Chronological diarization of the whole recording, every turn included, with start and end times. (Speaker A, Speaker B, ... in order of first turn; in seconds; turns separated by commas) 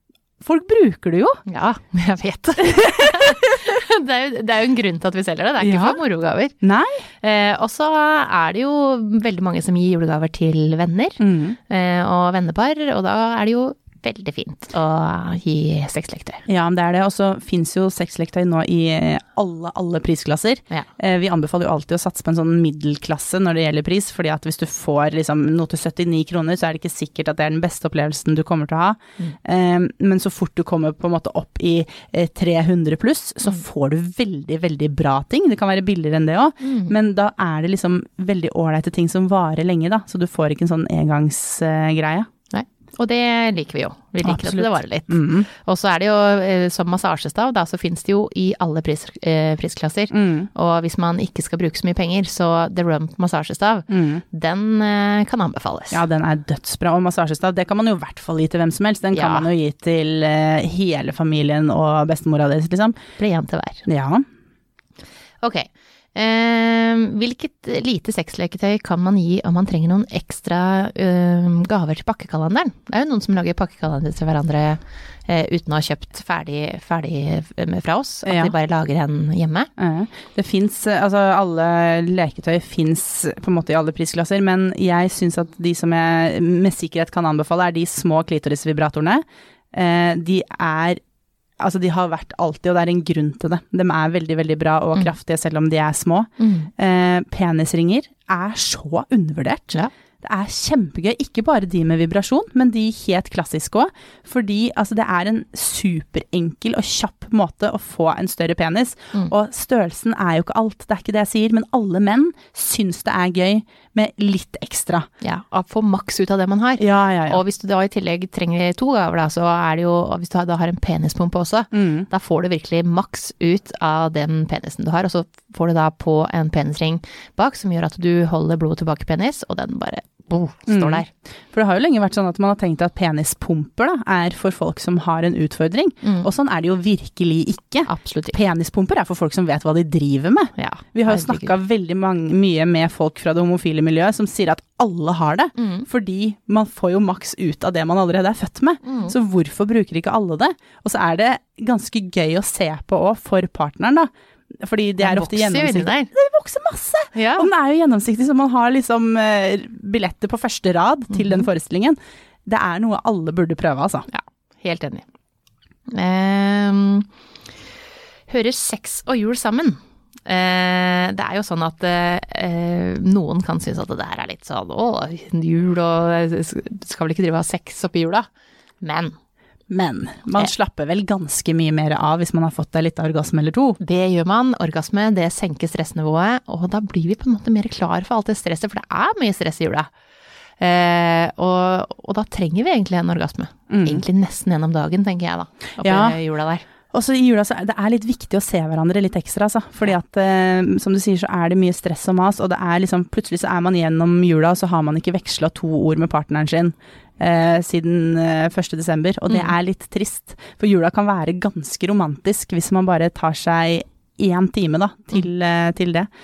Speaker A: 0.4-1.4, Speaker B: 1.5-6.5, Speaker A: 5.6-6.0, Speaker A: 6.6-7.0, Speaker B: 7.2-16.4, Speaker A: 11.2-11.6, Speaker A: 16.5-42.3, Speaker B: 36.6-36.9, Speaker B: 42.5-56.0, Speaker A: 44.2-45.5, Speaker A: 50.1-50.5, Speaker A: 53.9-54.2, Speaker A: 55.9-63.0, Speaker B: 59.1-59.5, Speaker B: 63.2-63.8, Speaker A: 63.9-64.2, Speaker B: 65.4-79.7, Speaker A: 78.2-78.5, Speaker A: 79.8-91.0, Speaker A: 91.6-115.1, Speaker B: 96.4-96.7, Speaker B: 115.2-131.1, Speaker A: 116.8-117.4, Speaker A: 121.7-122.1, Speaker A: 130.7-154.1, Speaker B: 136.0-136.3, Speaker B: 137.9-138.4, Speaker B: 140.6-141.5, Speaker B: 145.6-145.8, Speaker B: 148.8-149.1, Speaker A: 154.6-164.1, Speaker B: 155.0-156.1, Speaker B: 157.1-157.5, Speaker B: 161.2-161.4, Speaker B: 164.1-165.0, Speaker B: 165.9-167.1, Speaker B: 168.3-178.2, Speaker B: 178.8-179.1, Speaker A: 179.7-183.8, Speaker B: 183.8-189.9, Speaker B: 190.6-196.6, Speaker A: 193.7-194.0, Speaker A: 195.8-196.2, Speaker A: 196.9-216.1